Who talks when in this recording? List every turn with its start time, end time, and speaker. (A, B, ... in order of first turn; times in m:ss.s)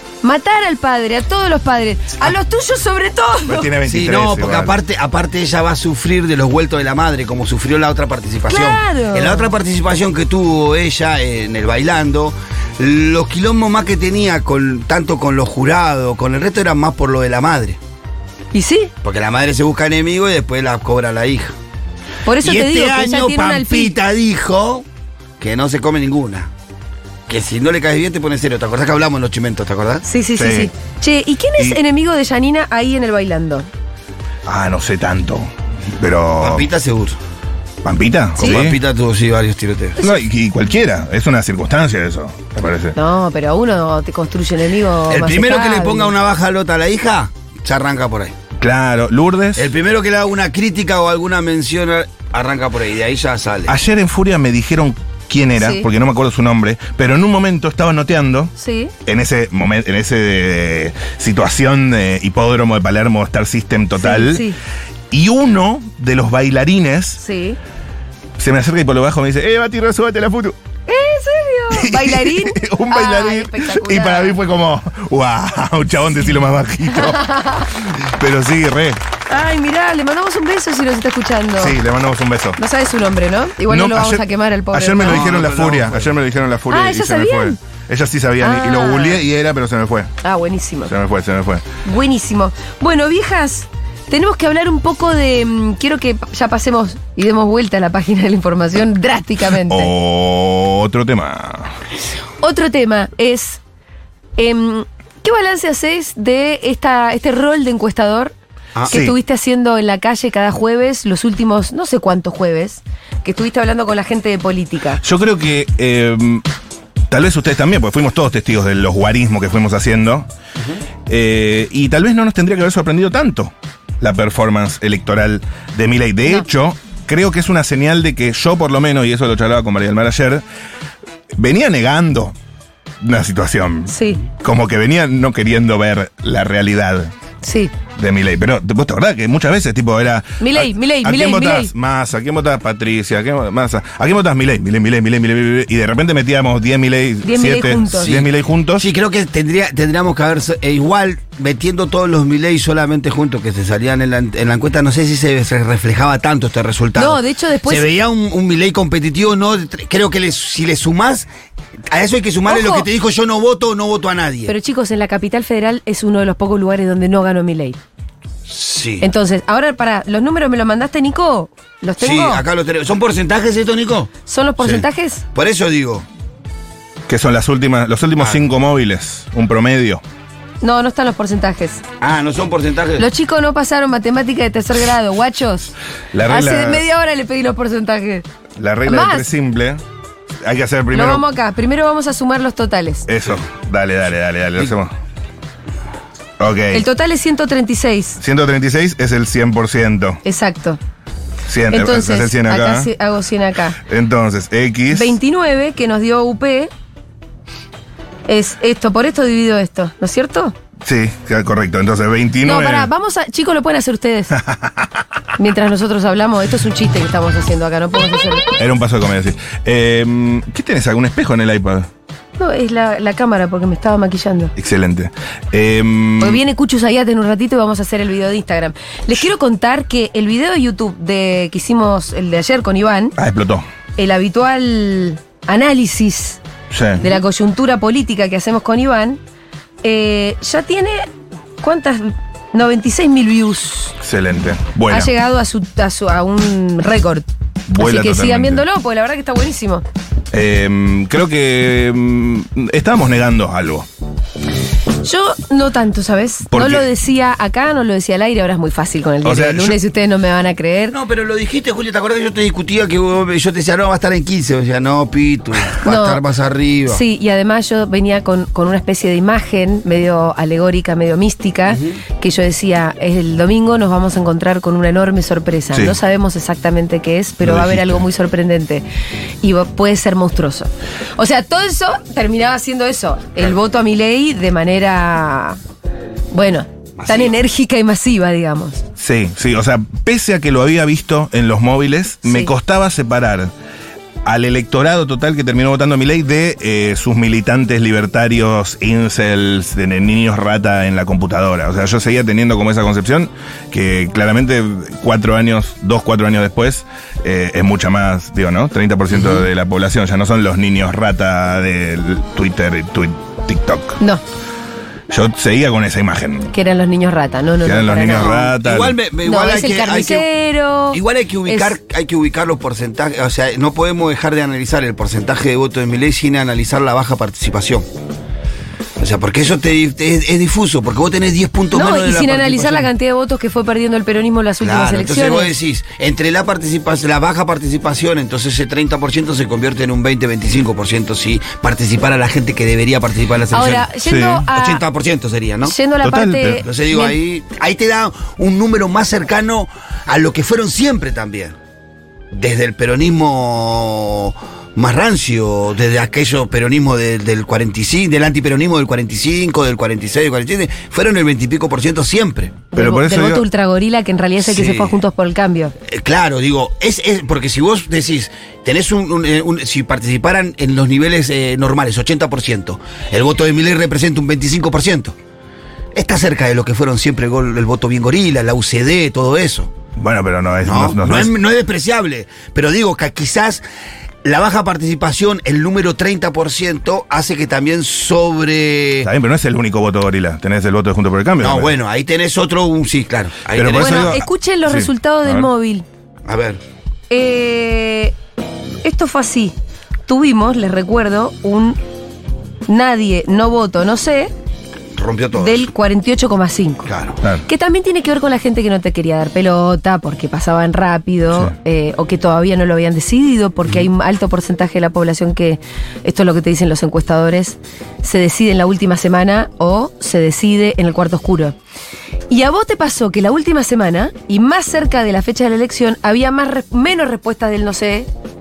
0:00.2-0:03.7 A
0:03.4-0:04.8 B
0:03.9-0:17.8 C
0:08.5-0:09.5 A
0:18.5-0:18.9 A
0:19.0-0:21.5 C
0:22.2-0:23.9 A
0:22.4-0:24.8 C
0:25.4-0:26.5 C
0:27.3-0:30.0 C
0:30.0-0:33.7 A
0:30.4-0:30.7 B
0:34.4-0:36.7 B
0:36.4-0:37.2 C
0:37.8-0:38.8 B
0:38.4-0:40.0 C
0:40.0-0:43.0 B
0:42.9-0:46.1 A
0:45.1-0:48.3 C
0:48.6-0:49.7 B
0:49.6-0:53.7 C
0:53.7-0:58.5 B
0:55.6-0:55.9 A
0:58.6-0:58.9 A
0:59.0-1:04.5 B
1:04.0-1:04.6 A
1:05.1-1:07.2 B
1:07.2-1:07.6 A
1:08.4-1:10.6 B
1:10.9-1:14.4 A
1:11.7-1:17.2 B
1:16.9-1:17.7 A
1:17.8-1:19.0 B
1:19.3-1:21.8 A
1:21.6-1:22.6 B
1:22.6-1:25.3 A
1:23.7-1:30.1 B
1:25.0-1:26.1 C
1:26.7-1:27.6 A
1:28.4-1:29.2 A
1:30.2-1:30.9 A
1:30.9-1:31.6 B
1:31.8-1:39.9 A
1:39.6-1:41.7 B
1:42.4-1:43.6 A
1:44.4-1:48.3 A
1:48.9-1:49.2 B
1:48.9-1:55.0 A
1:55.0-1:56.4 B
1:57.1-2:00.3 B
2:01.1-2:10.4 B
2:11.4-2:12.4 B
2:13.0-2:17.1 B
2:13.9-2:14.2 A
2:17.4-2:17.7 A
2:18.0-2:28.9 B
2:20.4-2:21.7 A
2:27.2-2:28.2 A
2:28.0-2:41.3 C
2:37.0-2:37.9 A
2:41.9-2:44.5 C
2:42.4-2:42.9 A
2:44.5-2:47.8 A
2:48.5-2:49.1 C
2:49.0-2:52.4 A
2:52.0-2:56.1 C
2:54.3-2:55.2 A
2:57.1-3:00.0 B
3:00.6-3:01.8 A
3:02.0-3:03.1 C
3:03.0-3:05.7 A
3:06.1-3:06.8 B
3:06.3-3:08.2 A
3:08.6-3:09.8 B
3:08.9-3:09.3 A
3:10.4-3:11.2 B
3:10.9-3:13.1 A
3:13.1-3:14.9 B
3:16.4-3:16.9 B
3:16.7-3:18.2 A
3:18.2-3:20.2 B
3:20.2-3:20.8 A
3:21.4-3:22.9 B
3:21.7-3:23.8 A
3:23.9-3:25.1 B
3:24.9-3:26.7 A
3:28.3-3:30.5 A
3:30.8-3:32.9 B
3:32.4-3:34.4 A
3:34.4-3:34.9 B
3:35.4-3:38.5 A
3:38.6-3:41.9 B
3:42.4-3:44.5 A
3:44.6-3:46.4 B
3:46.2-3:53.2 A
3:53.2-3:53.6 B
3:54.0-3:56.4 A
3:56.7-3:57.0 B
3:57.0-3:59.2 A
3:59.8-4:01.1 A
4:01.6-4:03.9 A
4:04.0-4:05.1 B
4:04.9-4:09.8 A
4:07.7-4:08.6 B
4:10.3-4:13.9 B
4:15.0-4:21.0 A
4:16.5-4:16.9 B
4:19.2-4:19.8 B
4:20.9-4:27.0 C
4:25.8-4:26.2 A
4:26.9-4:38.8 A
4:31.7-4:32.0 C
4:37.4-4:38.1 B
4:39.4-4:45.6 A
4:46.3-4:48.8 A
4:47.0-4:47.3 C
4:49.0-4:53.5 B
4:52.2-4:52.5 A
4:54.2-5:14.0 B
5:09.1-5:09.4 C
5:15.1-5:16.5 B
5:16.5-5:18.4 A
5:17.6-5:19.0 B
5:18.1-5:20.3 C
5:19.2-5:21.8 A
5:20.9-5:27.8 C
5:29.0-5:32.9 C
5:31.7-5:35.5 A
5:34.6-5:43.9 C
5:43.5-5:44.8 A
5:44.0-5:44.5 B
5:44.5-5:45.8 C
5:45.6-5:47.2 A
5:46.0-5:46.6 B
5:46.6-5:51.5 C
5:52.3-6:02.6 C
6:02.7-6:05.7 A
6:02.8-6:03.4 B
6:04.4-6:05.0 C
6:05.9-6:15.1 C
6:15.9-6:19.7 C
6:20.0-6:21.3 B
6:20.6-6:23.6 C
6:24.2-6:29.1 C
6:29.0-6:31.7 B
6:31.4-6:34.2 C
6:33.5-6:35.5 B
6:33.7-6:35.8 A
6:36.2-6:36.6 C
6:37.1-6:38.1 A
6:38.8-6:39.5 A
6:40.1-6:41.8 A
6:42.7-6:44.3 A
6:45.0-6:45.7 C
6:45.4-6:46.9 A
6:46.8-6:47.2 C
6:47.5-7:01.6 A
7:02.3-7:08.1 A